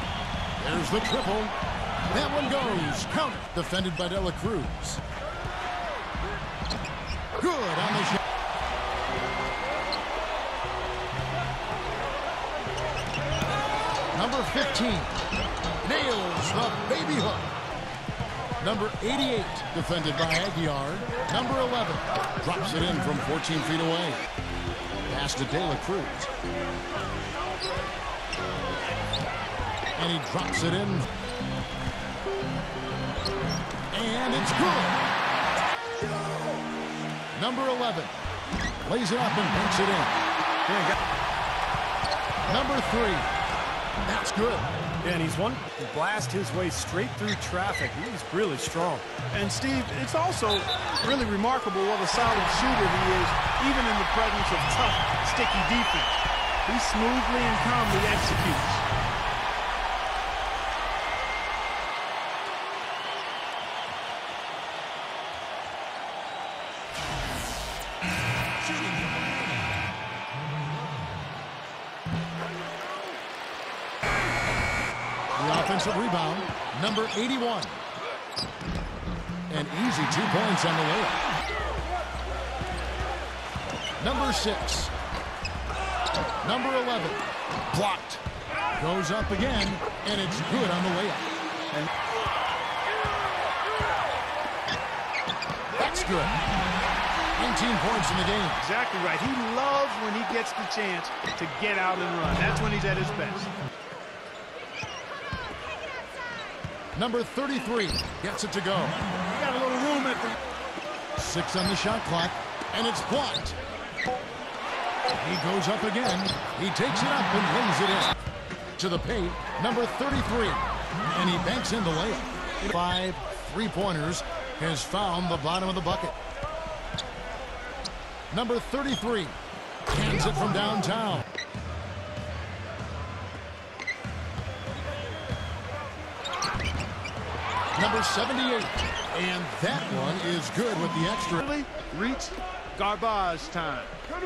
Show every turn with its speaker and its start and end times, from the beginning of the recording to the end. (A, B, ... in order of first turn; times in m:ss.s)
0:00.6-0:01.6 A
0:02.1-0:05.0 A
0:07.4-0:08.2 A
0:14.1-0:15.2 A
0:15.8-0:17.5 A
0:18.6-0:24.2 A
0:25.1-0:26.3 A
0:30.0-0:31.1 A
0:33.9-0:35.1 A
0:37.3-0:38.2 A
0:38.8-0:40.2 A
0:40.7-0:41.0 B
0:42.5-0:43.3 A
0:44.0-0:44.7 A
0:45.0-0:49.0 B
0:49.3-0:58.8 C
1:15.4-1:17.8 A
1:19.5-1:21.2 A
1:24.0-1:24.9 A
1:26.4-1:28.2 A
1:28.8-1:31.3 A
1:35.8-1:36.4 A
1:37.4-1:38.6 A
1:38.6-1:43.5 C
1:47.0-1:49.2 A
1:49.3-1:50.3 C
1:51.2-1:53.6 A
1:55.2-1:58.2 A
1:58.8-2:06.2 A
2:08.3-2:09.4 A
2:09.9-2:11.3 A
2:17.8-2:21.5 A
2:21.4-2:24.0 C